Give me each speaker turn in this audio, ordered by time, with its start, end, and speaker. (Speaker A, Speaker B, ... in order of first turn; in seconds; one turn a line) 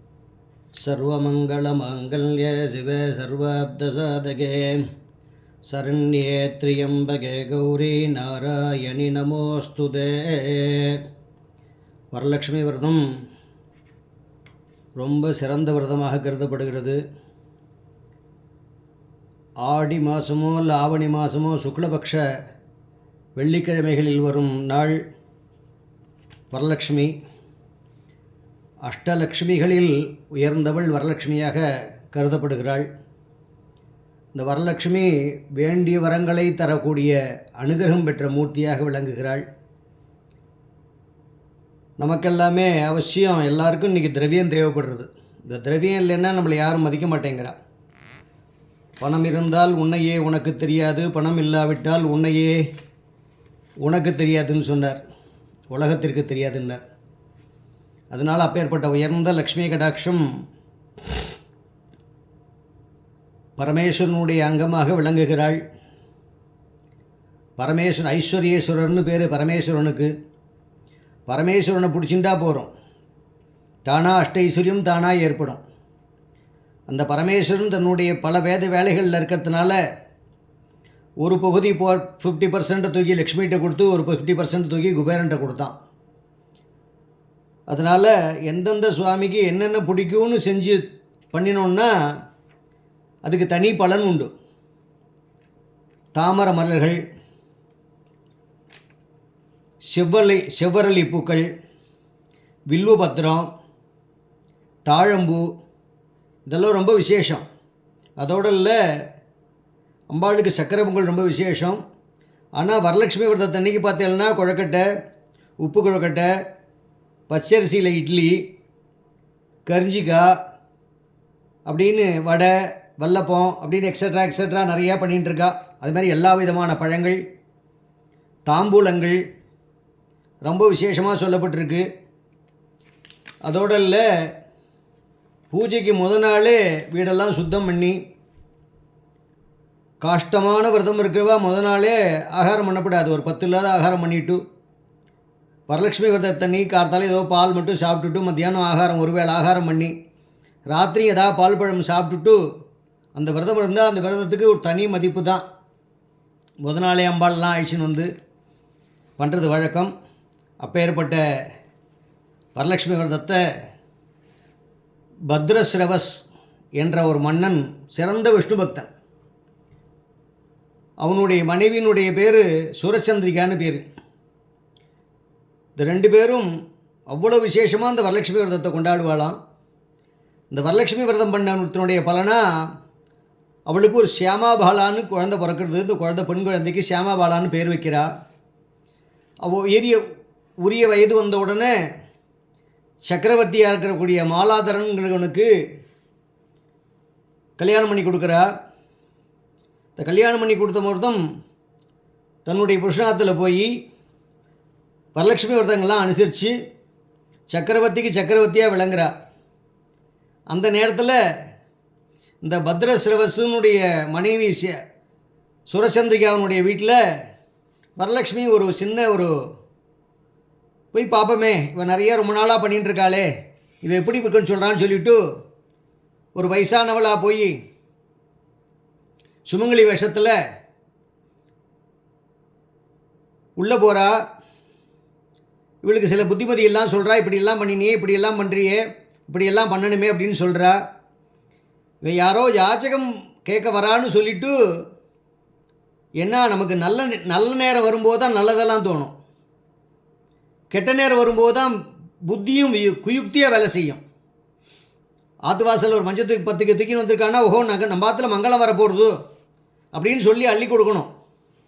Speaker A: 0.8-4.8
Speaker A: 5.7-11.0
Speaker A: 12.1-13.0
Speaker A: 15.0-17.0
Speaker A: 19.6-22.2
Speaker A: 23.4-25.0
Speaker A: 26.5-27.1
Speaker A: 28.9-32.9
Speaker A: 34.3-39.5
Speaker A: 42.0-47.6
Speaker A: 49.0-52.6
Speaker A: 53.8-55.0
Speaker A: 55.7-56.8
Speaker A: 58.1-60.2
Speaker A: 63.6-65.6
Speaker A: 67.6-70.1
Speaker A: 71.3-72.7
Speaker A: 73.8-75.6
Speaker A: 76.9-79.8
Speaker A: 81.2-85.7
Speaker A: 87.7-91.9
Speaker A: 93.2-94.3
Speaker A: 96.1-97.0
Speaker A: 99.9-101.5
Speaker A: 102.7-103.5
Speaker A: 104.8-105.5
Speaker A: 106.5-107.5
Speaker A: 108.2-108.8
Speaker A: 110.1-111.8
Speaker A: 112.6-114.8
Speaker A: 115.6-116.3
Speaker A: 117.3-118.4
Speaker A: 119.7-120.3
Speaker A: 121.7-127.2
Speaker A: 128.5-129.2
Speaker A: 130.4-131.9
Speaker A: 133.4-134.1
Speaker A: 135.5-138.0
Speaker A: 140.0-144.4
Speaker A: 145.7-149.9
Speaker A: 150.7-152.4
Speaker A: 153.2-155.4
Speaker A: 156.6-158.1
Speaker A: 159.2-159.9
Speaker A: 160.6-161.2
Speaker A: 162.6-163.4
Speaker A: 165.3-166.2
Speaker A: 166.8-168.9
Speaker A: 171.0-173.8
Speaker A: 175.8-176.5
Speaker A: 177.1-179.4
Speaker A: 180.5-182.4
Speaker A: 183.7-188.1
Speaker A: 189.4-190.0
Speaker A: 190.6-191.8
Speaker A: 193.1-195.5
Speaker A: 197.6-198.5
Speaker A: 200.0-201.2
Speaker A: 202.5-203.7
Speaker A: 205.2-206.5
Speaker A: 207.5-209.1
Speaker A: 210.5-211.2
Speaker A: 212.4-214.8
Speaker A: 215.7-217.0
Speaker A: 218.0-219.3
Speaker A: 220.9-223.3
Speaker A: 223.8-225.2
Speaker A: 226.3-227.5
Speaker A: 229.5-230.3
Speaker A: 233.6-234.1
Speaker A: 235.8-240.8
Speaker A: 242.0-244.6
Speaker A: 246.2-249.1
Speaker A: 250.7-251.7
Speaker A: 252.3-254.0
Speaker A: 255.5-259.1
Speaker A: 259.9-261.1